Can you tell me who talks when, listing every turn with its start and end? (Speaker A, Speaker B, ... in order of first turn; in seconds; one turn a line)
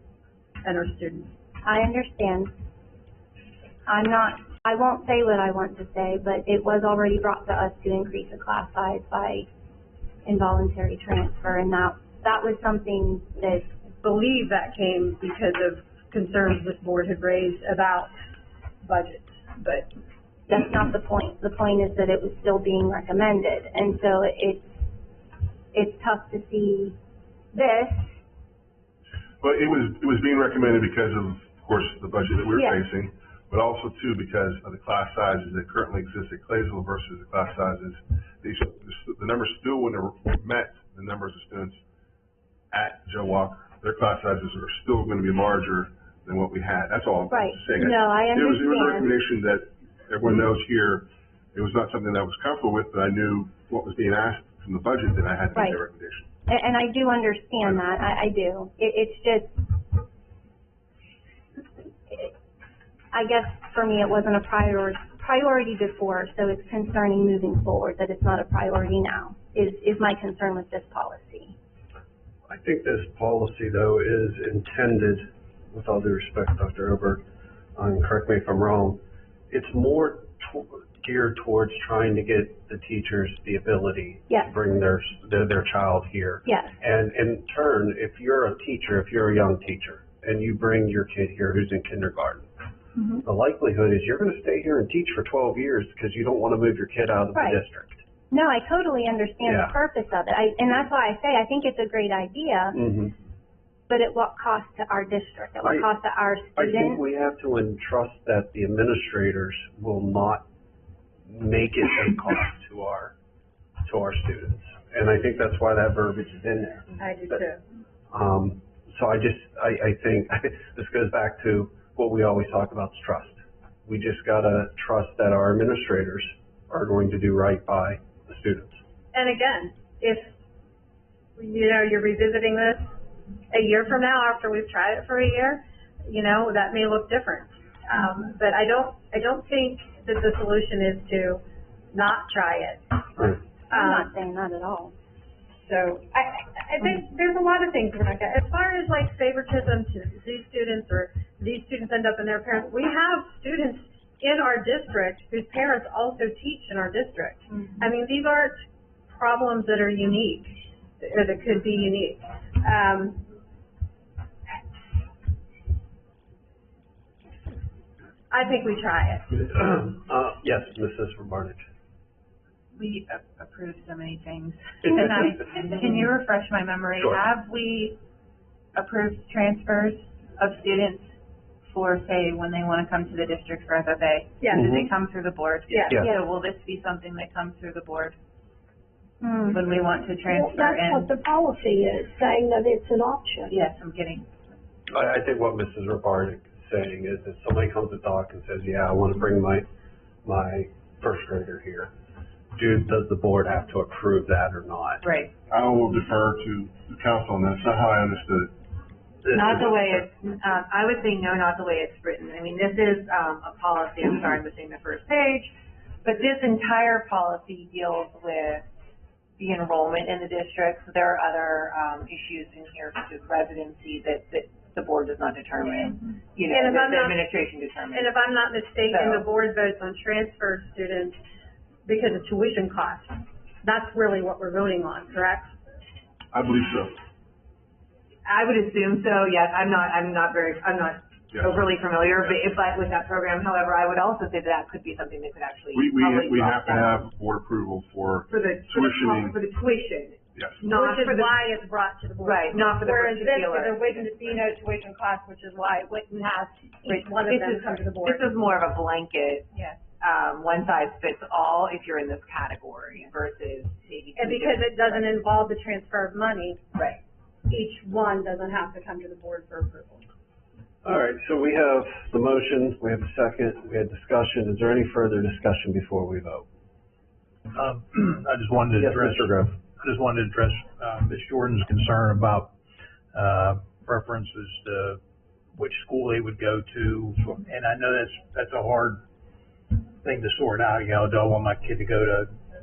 Speaker A: 0.6-1.3
Speaker B: 1.6-2.6
Speaker B: 3.9-9.5
Speaker B: 10.2-13.7
Speaker A: 14.0-18.1
Speaker A: 18.8-19.9
Speaker B: 20.5-24.9
Speaker B: 25.7-26.9
Speaker B: 27.5-28.1
Speaker C: 29.4-41.8
Speaker B: 32.5-32.8
Speaker C: 42.7-56.3
Speaker B: 47.3-49.2
Speaker B: 56.5-59.8
Speaker B: 63.1-71.5
Speaker D: 72.5-77.2
Speaker D: 77.8-92.5
Speaker B: 86.5-86.7
Speaker D: 93.2-98.0
Speaker B: 97.3-97.6
Speaker B: 98.3-102.8
Speaker D: 99.4-99.7
Speaker D: 102.7-103.1
Speaker B: 103.9-107.0
Speaker D: 105.6-105.9
Speaker D: 106.5-110.5
Speaker D: 111.3-113.1
Speaker D: 113.8-117.4
Speaker A: 117.0-117.6
Speaker D: 118.1-128.8
Speaker A: 129.1-130.4
Speaker A: 131.4-132.9
Speaker A: 133.5-141.4
Speaker A: 141.9-144.1
Speaker B: 143.7-144.9
Speaker A: 145.6-158.6
Speaker A: 159.1-163.2
Speaker A: 168.3-169.3
Speaker D: 169.3-171.6
Speaker E: 172.8-178.0
Speaker D: 177.0-177.2
Speaker E: 178.7-181.1
Speaker E: 181.7-188.2
Speaker D: 184.5-184.9
Speaker A: 185.7-186.0
Speaker B: 189.2-189.6
Speaker E: 189.4-191.1
Speaker F: 190.3-193.5
Speaker E: 193.5-194.3
Speaker D: 194.9-199.7
Speaker D: 200.2-201.9
Speaker D: 202.5-205.0
Speaker G: 205.0-205.3
Speaker C: 205.5-208.5
Speaker G: 209.3-215.5
Speaker G: 216.0-218.6
Speaker G: 219.4-228.1
Speaker A: 226.4-227.2
Speaker A: 227.9-231.2
Speaker G: 228.9-229.2
Speaker A: 231.8-235.6
Speaker C: 236.3-237.0
Speaker G: 238.2-247.0
Speaker C: 241.3-241.6
Speaker C: 245.7-249.5
Speaker G: 248.3-251.3
Speaker C: 250.3-250.7
Speaker A: 250.7-258.3
Speaker G: 252.2-254.4
Speaker G: 256.8-265.0
Speaker A: 264.1-266.6
Speaker G: 266.7-267.0
Speaker A: 267.5-270.0
Speaker D: 270.8-276.4
Speaker H: 277.5-282.5
Speaker D: 278.7-279.5
Speaker H: 283.1-285.0
Speaker H: 285.5-289.0
Speaker H: 289.7-292.3